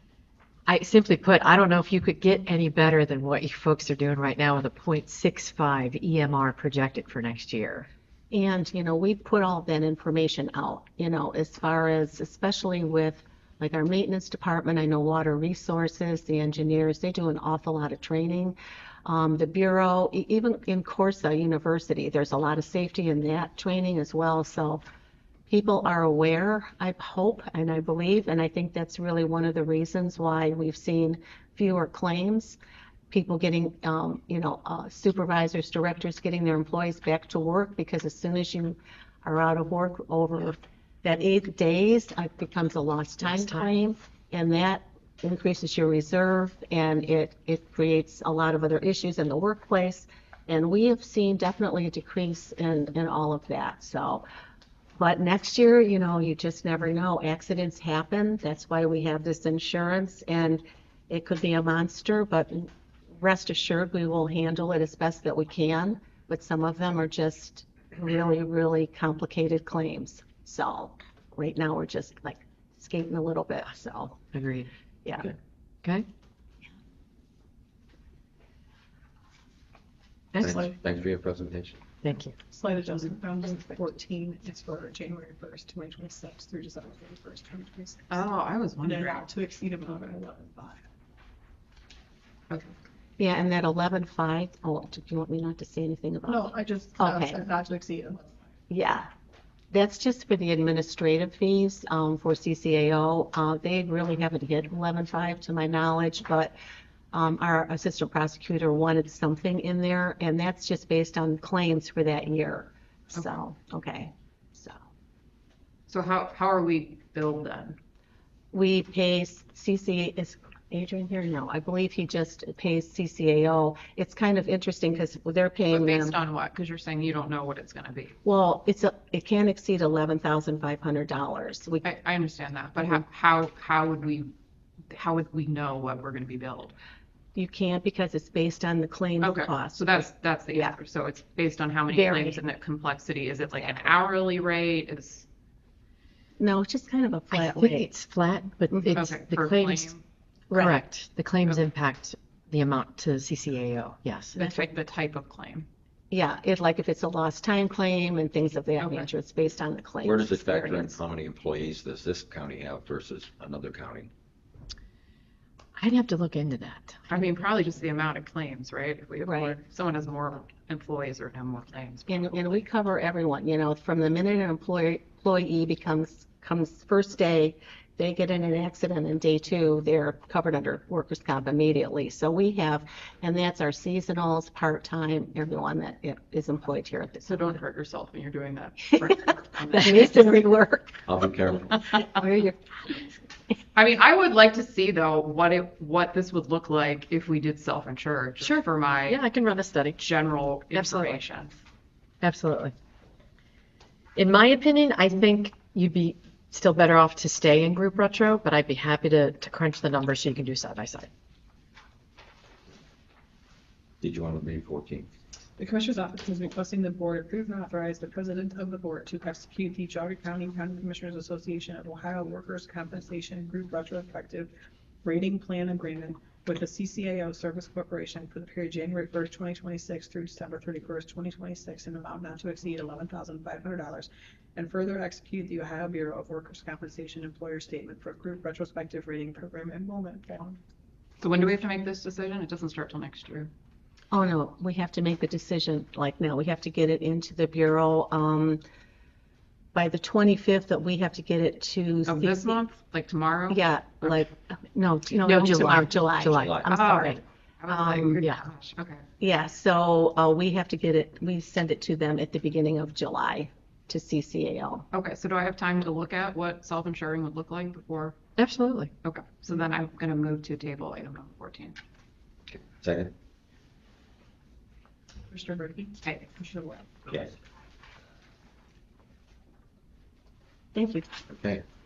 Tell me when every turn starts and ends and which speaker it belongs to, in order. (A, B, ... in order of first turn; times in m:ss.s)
0:00.6-0:07.9 A
0:08.3-0:24.8 B
0:25.5-0:32.6 B
0:33.1-0:54.2 B
0:43.2-0:43.7 A
0:55.0-1:14.2 B
1:14.3-1:14.7 A
1:20.3-1:20.7 A
1:20.4-1:21.8 C
1:22.0-1:22.3 A
1:22.5-1:28.3 D
1:28.1-1:29.2 E
1:28.8-1:30.8 D
1:33.2-1:37.4 B
1:36.3-1:38.3 D
1:38.7-1:39.1 B
1:39.7-1:46.5 B
1:47.1-1:54.8 B
1:55.9-1:57.8 E
1:58.5-2:06.2 B
2:05.7-2:08.1 E
2:08.2-2:11.9 B
2:11.8-2:14.3 E
2:12.8-2:13.0 B
2:14.9-2:16.7 E
2:17.3-2:20.7 B
2:19.2-2:25.3 E
2:21.9-2:22.4 B
2:23.5-2:23.9 B
2:26.4-2:27.9 B
2:27.3-2:29.9 A
2:28.9-2:30.0 E
2:30.5-2:30.8 B
2:30.5-2:34.4 A
2:34.3-2:35.7 E
2:34.4-2:34.6 B
2:36.1-2:41.0 B
2:38.8-2:39.1 E
2:40.0-2:44.1 C
2:45.8-2:47.0 A
2:47.1-2:52.6 E
2:49.2-2:49.6 B
2:52.1-3:07.4 B
3:07.2-3:10.4 E
3:09.7-3:11.0 B
3:11.1-3:11.9 C
3:11.9-3:13.0 B
3:13.7-3:19.2 E
3:18.4-3:20.0 A
3:20.0-3:21.5 E
3:20.7-3:21.2 A
3:22.2-3:22.7 A
3:24.2-3:31.1 A
3:34.0-3:35.1 C
3:35.6-3:44.5 D
3:45.0-4:00.6 D
4:01.2-4:03.5 E
4:04.1-4:08.6 B
4:09.7-4:12.6 B
4:12.0-4:14.2 E
4:13.5-4:18.2 B
4:15.2-4:17.2 A
4:16.3-4:16.7 C
4:16.7-4:19.0 E
4:19.2-4:24.8 B
4:24.9-4:28.2 E
4:28.4-4:28.9 A
4:29.0-4:31.8 E
4:32.5-4:33.1 C
4:35.3-4:37.0 D
4:37.1-4:37.3 C
4:40.7-4:41.1 B
4:41.3-4:41.6 C